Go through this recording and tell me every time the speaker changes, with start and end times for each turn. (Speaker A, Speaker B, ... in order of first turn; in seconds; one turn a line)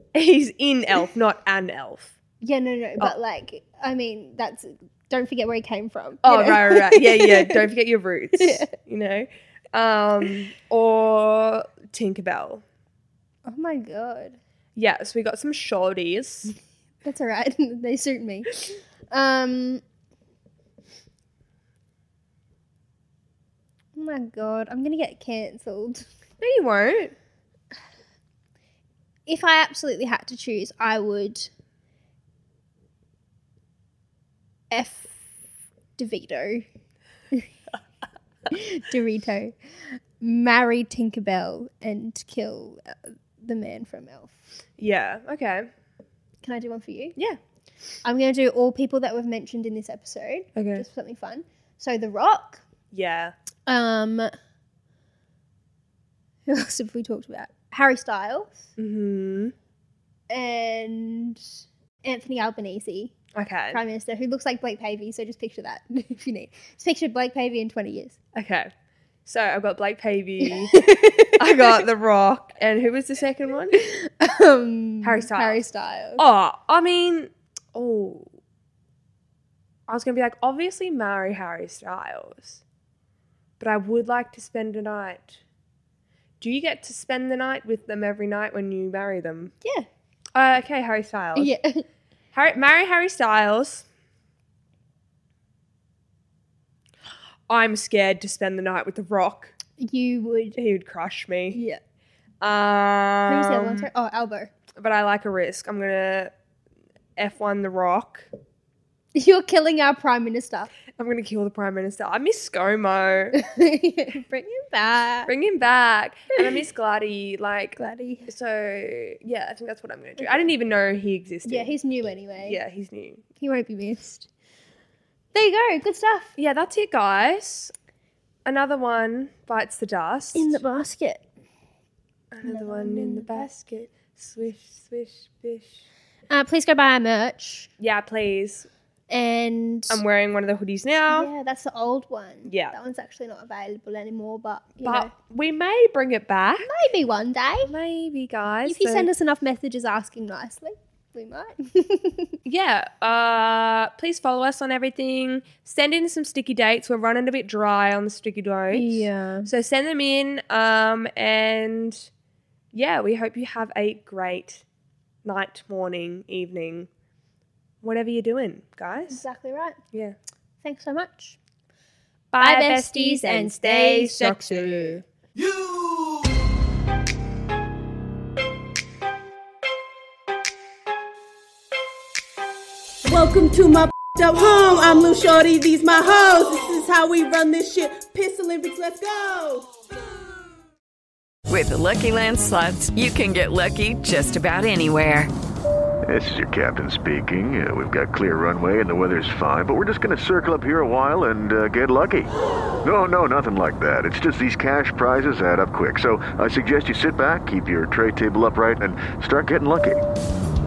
Speaker A: 0.1-2.1
Speaker B: 2.4-7.6
Speaker A: 6.2-12.6
Speaker B: 8.3-8.7
Speaker B: 13.4-14.4
Speaker A: 14.7-16.5
Speaker B: 17.0-19.8
Speaker B: 23.9-26.1
Speaker A: 26.4-27.1
Speaker B: 29.3-31.5
Speaker B: 34.7-35.2
Speaker B: 36.0-36.6
Speaker B: 38.5-39.5
Speaker B: 40.2-44.4
Speaker A: 44.8-45.7
Speaker B: 46.4-47.2
Speaker B: 48.0-52.6
Speaker A: 50.5-50.8
Speaker A: 52.9-53.3
Speaker B: 53.6-54.3
Speaker B: 56.5-58.7
Speaker A: 58.8-59.5
Speaker B: 60.3-63.1
Speaker A: 63.3-63.8
Speaker B: 63.7-68.2
Speaker A: 68.3-68.7
Speaker A: 69.2-70.8
Speaker B: 70.7-71.8
Speaker A: 71.4-73.8
Speaker B: 73.7-76.2
Speaker A: 75.0-75.6
Speaker A: 76.2-78.3
Speaker A: 79.9-82.6
Speaker A: 83.6-85.4
Speaker A: 86.4-89.5
Speaker A: 90.3-91.5
Speaker B: 91.3-91.8
Speaker A: 92.3-93.8
Speaker A: 97.5-99.5
Speaker B: 99.8-100.6
Speaker A: 100.5-101.6
Speaker B: 101.5-101.8
Speaker A: 102.4-103.9
Speaker B: 103.3-104.5
Speaker A: 104.8-106.3
Speaker A: 107.2-108.3
Speaker B: 109.1-110.7
Speaker A: 110.9-113.4
Speaker B: 113.3-115.3
Speaker A: 115.3-121.7
Speaker B: 117.8-118.3
Speaker B: 120.2-120.5
Speaker B: 121.4-122.6
Speaker A: 122.4-123.2
Speaker B: 123.4-124.3
Speaker B: 125.3-126.3
Speaker A: 126.4-127.7
Speaker A: 128.4-130.6
Speaker B: 130.3-131.2
Speaker A: 132.3-135.8
Speaker B: 132.4-133.5
Speaker B: 136.3-137.7
Speaker A: 137.8-138.7
Speaker B: 139.1-140.0
Speaker A: 139.9-141.3
Speaker B: 141.1-145.1
Speaker A: 142.4-142.8
Speaker A: 144.8-146.7
Speaker B: 146.6-147.7
Speaker A: 147.6-149.1
Speaker B: 148.7-152.4
Speaker A: 152.4-162.1
Speaker B: 158.7-159.5
Speaker A: 162.7-164.6
Speaker A: 165.2-166.9
Speaker A: 167.8-169.2
Speaker B: 169.1-169.8
Speaker A: 169.9-170.2
Speaker B: 170.6-171.4
Speaker A: 172.3-175.0
Speaker B: 172.4-175.0
Speaker C: 183.0-189.7
Speaker D: 191.5-195.3
Speaker E: 196.0-202.3
Speaker E: 202.8-210.0